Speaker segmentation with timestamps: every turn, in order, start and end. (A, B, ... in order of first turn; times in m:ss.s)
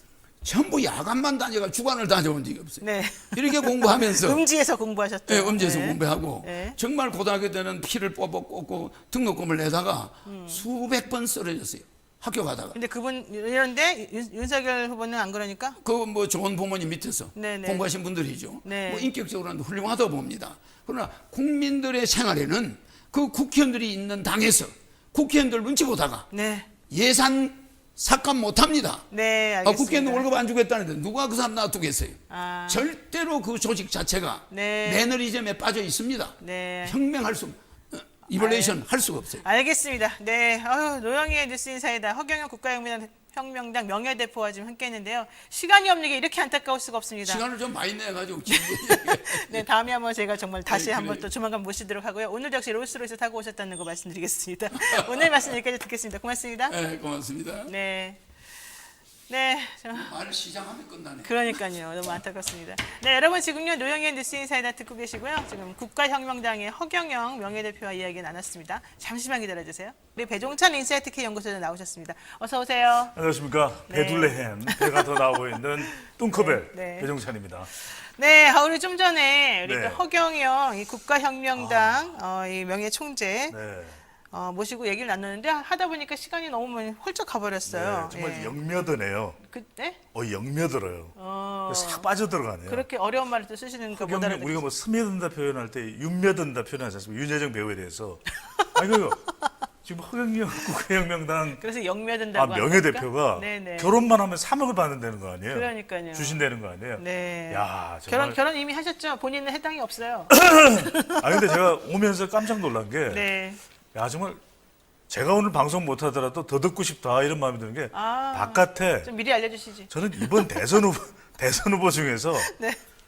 0:00.4-0:04.4 A
0:02.8-0:06.8 B
0:05.3-0:12.8 A
0:10.2-0:10.6 B
0:12.7-0:15.8 B
0:15.8-0:26.3 A
0:17.3-0:17.9 B
0:18.6-0:19.1 B
0:26.3-0:26.7 B
0:26.9-0:29.0 A
0:29.1-0:30.2 B
0:29.6-0:39.4 A
0:32.3-0:32.9 B
0:34.5-0:35.1 B
0:36.4-0:37.0 B
0:38.3-0:38.8 B
0:39.4-0:47.4 B
0:47.2-0:49.6 A
0:48.5-0:56.8 B
0:50.7-0:51.2 A
0:54.8-0:55.2 A
0:56.7-0:57.7 A
0:57.6-0:58.2 B
0:59.3-1:00.1 B
0:59.9-1:01.6 A
1:01.2-1:13.1 B
1:13.1-1:17.7 C
1:13.9-1:15.3 B
1:15.8-1:17.1 B
1:17.8-1:23.5 B
1:19.6-1:20.0 C
1:21.6-1:22.0 C
1:23.5-1:24.0 C
1:24.3-1:28.5 B
1:27.7-1:29.4 C
1:29.4-1:30.0 B
1:30.1-1:31.2 C
1:31.2-1:32.1 B
1:31.7-1:32.8 C
1:32.6-1:34.6 B
1:33.9-1:41.6 C
1:41.6-1:43.9 B
1:42.3-1:48.4 C
1:45.5-1:46.4 B
1:47.0-1:51.5 B
1:50.3-1:53.3 C
1:53.1-1:53.6 B
1:53.9-1:54.4 C
1:55.1-1:59.1 C
1:57.9-1:59.9 B
1:59.9-2:02.5 C
2:02.4-2:02.8 B